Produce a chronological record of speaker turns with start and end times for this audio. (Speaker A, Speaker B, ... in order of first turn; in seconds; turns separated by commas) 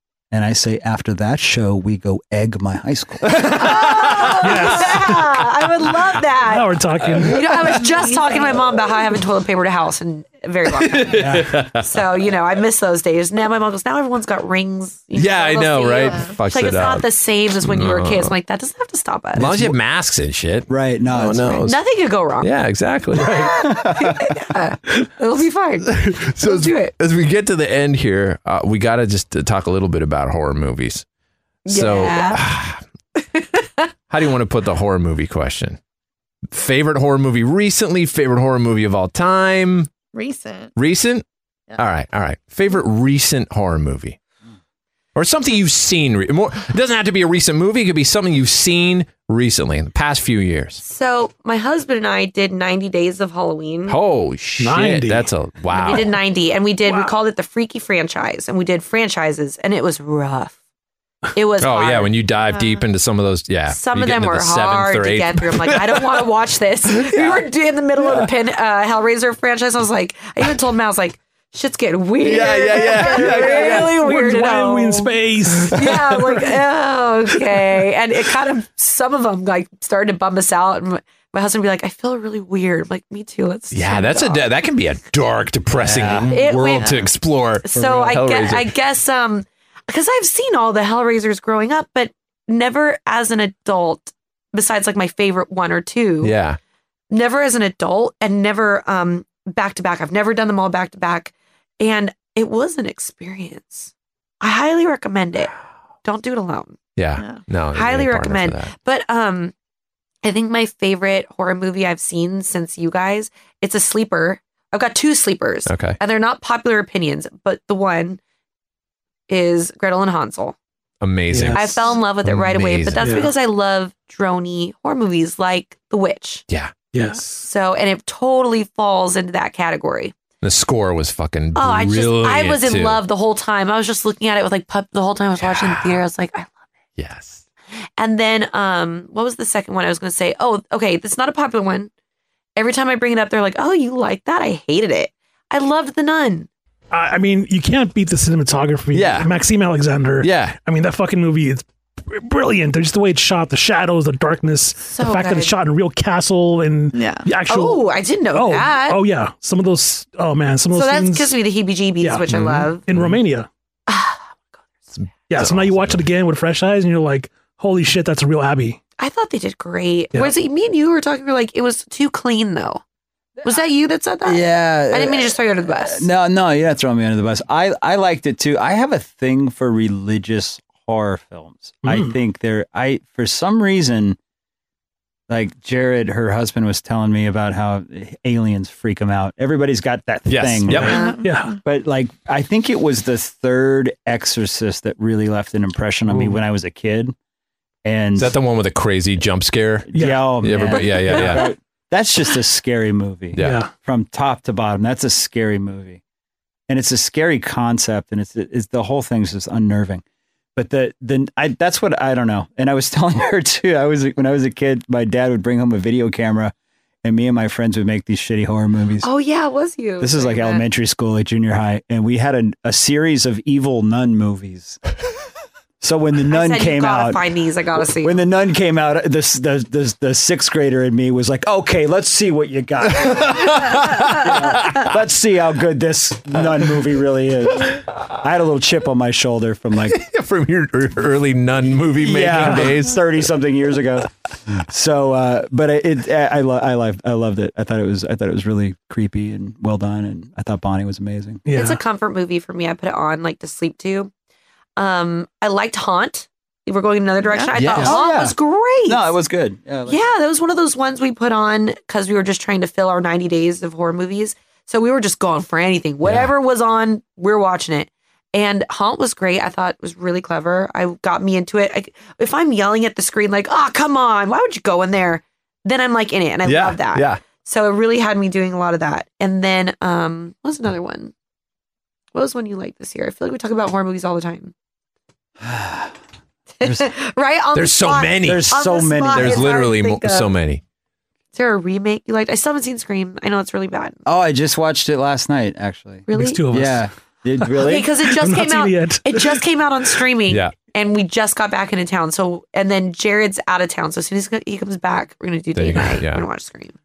Speaker A: 0.3-3.6, Speaker B: 3.3-4.8, Speaker C: 3.3-6.8, Speaker D: 4.4-5.2, Speaker D: 6.5-7.7, Speaker B: 7.1-7.6, Speaker C: 7.3-19.7, Speaker E: 8.0-8.3, Speaker B: 10.8-11.9, Speaker A: 11.1-11.6, Speaker B: 15.1-17.1, Speaker B: 17.6-18.3, Speaker B: 19.4-21.8, Speaker A: 20.7-21.6, Speaker C: 21.5-22.5, Speaker B: 22.4-23.4, Speaker D: 23.2-23.5, Speaker C: 23.2-26.9, Speaker A: 23.6-24.3, Speaker B: 25.9-31.1, Speaker C: 31.7-32.4, Speaker B: 31.7-32.8, Speaker C: 33.2-33.9, Speaker B: 34.1-35.8, Speaker B: 36.5-39.9, Speaker E: 40.1-40.7, Speaker B: 40.8-41.2, Speaker B: 41.8-44.2, Speaker B: 45.1-50.8, Speaker C: 50.8-54.0, Speaker B: 53.9-56.1, Speaker D: 54.6-55.3, Speaker C: 55.7-60.6, Speaker D: 56.9-57.1, Speaker C: 61.4-62.8, Speaker B: 61.6-66.0, Speaker C: 63.7-75.2, Speaker B: 67.0-67.4, Speaker B: 72.2-73.9, Speaker D: 72.8-76.6, Speaker C: 75.7-84.5, Speaker B: 83.7-88.7, Speaker A: 85.8-86.3, Speaker C: 86.3-87.0, Speaker C: 87.6-96.3, Speaker B: 96.2-96.6, Speaker C: 97.1-105.5, Speaker C: 106.0-106.8, Speaker B: 107.0-108.7, Speaker E: 107.2-107.4, Speaker C: 107.7-109.5, Speaker C: 110.2-118.2, Speaker B: 115.7-116.0, Speaker C: 119.3-120.6, Speaker B: 121.0-123.1, Speaker D: 121.3-121.8, Speaker C: 121.5-126.4, Speaker D: 123.0-123.3, Speaker D: 126.9-127.5, Speaker C: 127.3-130.2, Speaker B: 130.4-133.0, Speaker C: 131.6-136.6, Speaker B: 135.4-136.0, Speaker B: 137.0-137.4, Speaker C: 138.0-141.9, Speaker C: 142.6-146.5, Speaker D: 146.9-161.3, Speaker B: 148.9-149.3, Speaker B: 150.2-150.6, Speaker C: 154.8-155.5, Speaker E: 156.9-157.3, Speaker C: 157.5-159.0, Speaker C: 160.7-162.8, Speaker D: 162.0-163.5, Speaker B: 162.3-163.2, Speaker C: 163.9-164.4, Speaker B: 165.0-166.0, Speaker D: 165.3-168.8, Speaker C: 169.0-172.8, Speaker A: 173.4-173.7, Speaker C: 173.4-176.1, Speaker A: 174.2-184.2, Speaker D: 181.8-182.2, Speaker A: 185.3-191.0, Speaker B: 190.3-191.0, Speaker D: 190.7-191.5, Speaker E: 190.8-191.6, Speaker C: 190.9-191.2, Speaker A: 191.6-197.2, Speaker D: 196.1-196.4, Speaker A: 197.8-198.4, Speaker B: 198.2-201.5, Speaker A: 199.9-206.0, Speaker D: 199.9-200.3, Speaker D: 201.0-201.4, Speaker B: 203.3-203.7, Speaker D: 203.4-203.7, Speaker A: 206.7-210.0, Speaker A: 210.6-219.1, Speaker C: 219.0-220.7, Speaker A: 220.0-224.8, Speaker A: 225.8-240.0, Speaker C: 226.3-228.2, Speaker B: 232.9-234.8, Speaker B: 239.9-243.2, Speaker A: 242.0-251.4, Speaker D: 242.4-242.7, Speaker D: 251.5-251.8, Speaker C: 251.5-254.1, Speaker C: 254.8-259.2, Speaker B: 257.5-257.9, Speaker A: 257.8-260.0, Speaker C: 259.9-281.1, Speaker B: 266.0-266.3, Speaker B: 276.5-277.2, Speaker C: 282.1-284.5, Speaker A: 285.4-286.0, Speaker C: 286.6-290.3, Speaker A: 286.6-286.9, Speaker B: 287.5-288.5, Speaker A: 288.2-289.6, Speaker B: 289.1-290.6, Speaker C: 291.3-294.0, Speaker A: 294.1-297.9, Speaker C: 296.1-296.4, Speaker D: 296.1-296.9, Speaker D: 297.4-299.4, Speaker C: 297.6-306.8, Speaker B: 300.3-300.5, Speaker B: 305.6-306.3